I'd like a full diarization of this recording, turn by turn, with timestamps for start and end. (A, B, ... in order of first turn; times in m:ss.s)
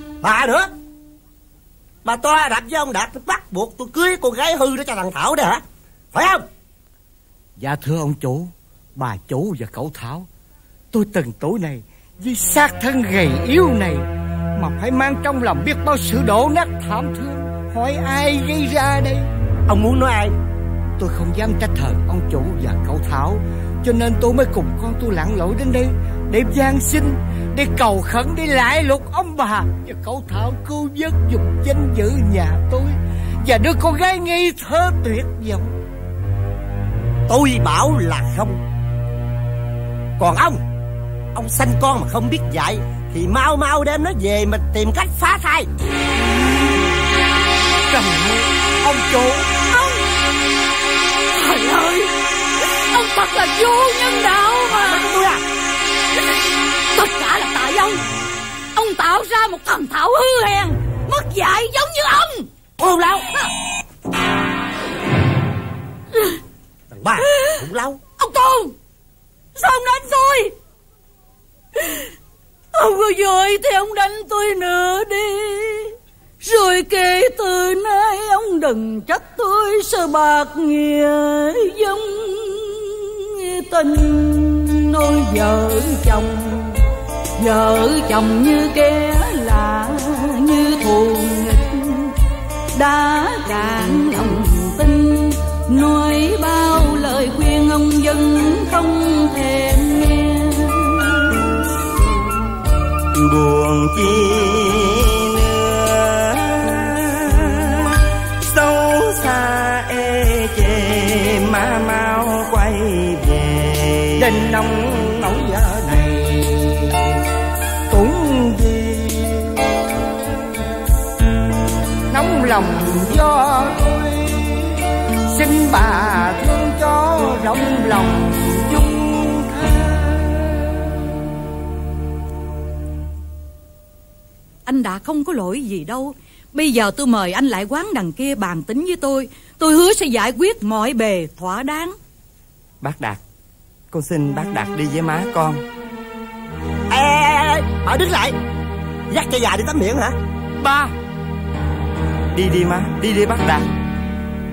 0:00.2-0:00.7 A
0:02.0-0:06.4 A
0:07.6-0:10.3 B
0:10.9-0:14.0 B
0:14.6-0:19.2 B
0:19.7-0:20.3 A
0:21.0-0:35.7 B
0:37.3-0:38.6 A
0:40.2-0:40.6 A
0:41.3-0:45.7 A
0:47.9-0:49.5 B
0:49.7-0:50.0 C
0:51.3-0:52.1 C
0:52.9-0:55.1 C
0:54.9-0:55.4 A
0:56.9-0:58.0 C
0:58.7-1:02.5 C
1:02.8-1:03.3 A
1:06.9-1:08.0 A
1:07.3-1:07.5 C
1:08.2-1:08.7 C
1:09.6-1:10.5 C
1:12.7-1:26.8 C
1:27.4-1:32.1 C
1:32.7-1:41.4 C
1:43.1-1:54.3 D
1:54.2-1:57.0 B
1:57.9-1:59.6 B
2:02.1-2:10.7 B
2:14.6-2:22.0 C
2:22.8-2:23.2 D
2:23.9-2:25.6 D
2:26.9-2:28.4 A
2:29.1-2:30.2 A
2:30.6-2:30.9 D
2:32.3-2:33.7 D